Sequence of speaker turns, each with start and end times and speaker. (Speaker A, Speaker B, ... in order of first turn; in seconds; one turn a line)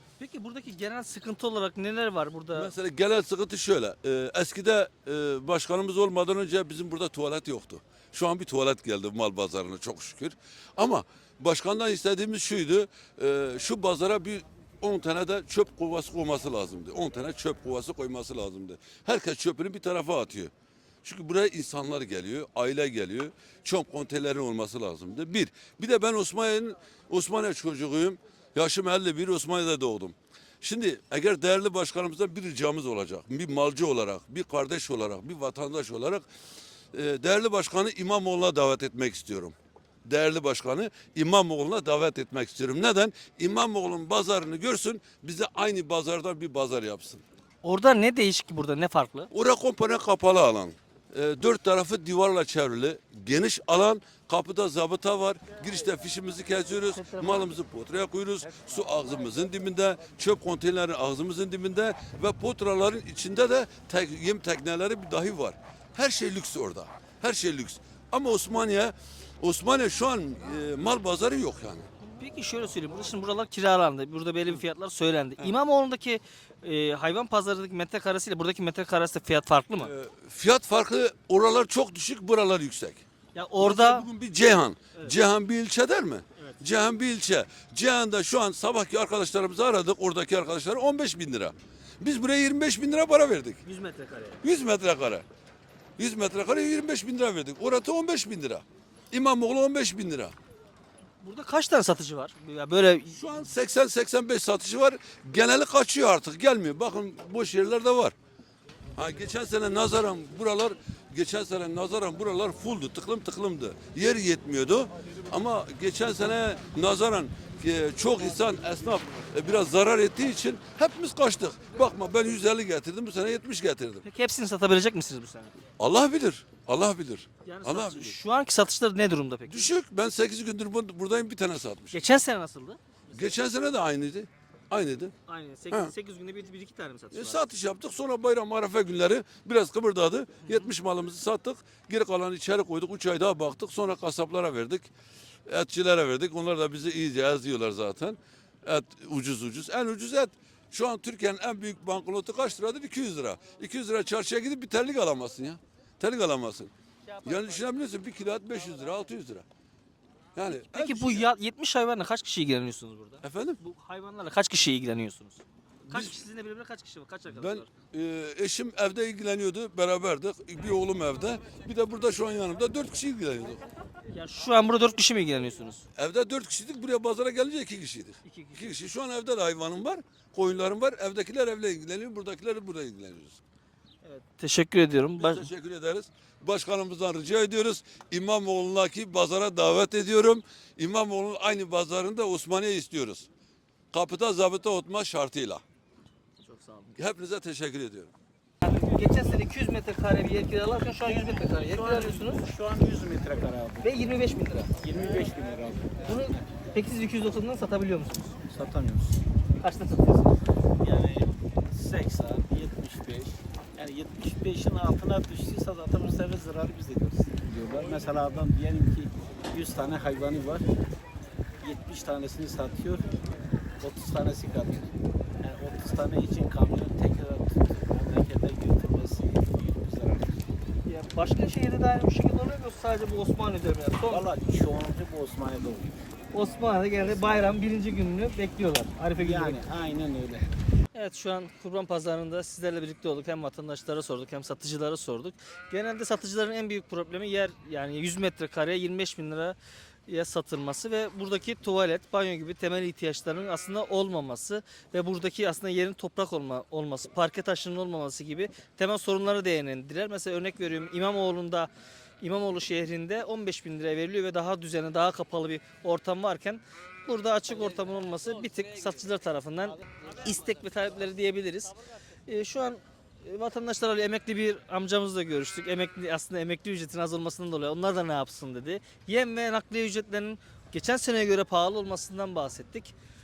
Speaker A: 0.2-2.7
Speaker B: 2.5-20.5
Speaker B: 21.0-36.2
Speaker B: 36.9-47.2
Speaker A: 47.6-49.3
Speaker B: 49.3-71.9
Speaker A: 56.9-57.5
Speaker A: 72.2-79.9
Speaker B: 79.8-83.0
Speaker A: 83.3-84.1
Speaker B: 83.6-93.6
Speaker A: 93.6-94.4
Speaker B: 94.4-95.2
Speaker B: 96.0-100.3
Speaker A: 101.2-103.2
Speaker B: 103.1-108.1
Speaker B: 109.0-124.0
Speaker A: 124.0-125.5
Speaker B: 125.8-128.2
Speaker A: 127.4-129.7
Speaker B: 129.5-132.0
Speaker A: 131.9-133.3
Speaker B: 133.1-135.1
Speaker A: 135.3-137.4
Speaker B: 137.1-144.9
Speaker B: 145.5-156.7
Speaker A: 157.2-157.6
Speaker B: 157.2-159.4
Speaker B: 160.3-161.2
Speaker A: 160.5-167.7
Speaker B: 163.2-163.6
Speaker B: 165.9-166.2
Speaker B: 167.3-173.6
Speaker A: 174.1-175.8
Speaker B: 176.0-183.4
Speaker A: 178.2-178.7
Speaker A: 184.0-185.4
Speaker B: 185.2-193.3
Speaker B: 193.9-195.6
Speaker A: 196.4-196.9
Speaker B: 197.0-198.1
Speaker A: 198.6-202.4
Speaker C: 201.5-204.1
Speaker A: 203.8-204.7
Speaker C: 204.8-206.5
Speaker A: 206.0-208.3
Speaker C: 208.4-209.2
Speaker A: 209.6-210.3
Speaker C: 210.8-220.7
Speaker C: 221.6-223.1
Speaker C: 223.8-230.4
Speaker A: 230.8-234.3
Speaker C: 234.0-236.0
Speaker A: 236.3-239.6
Speaker C: 237.1-237.4
Speaker C: 239.2-240.6
Speaker A: 240.9-261.7
Speaker A: 262.2-271.8
Speaker A: 272.3-282.9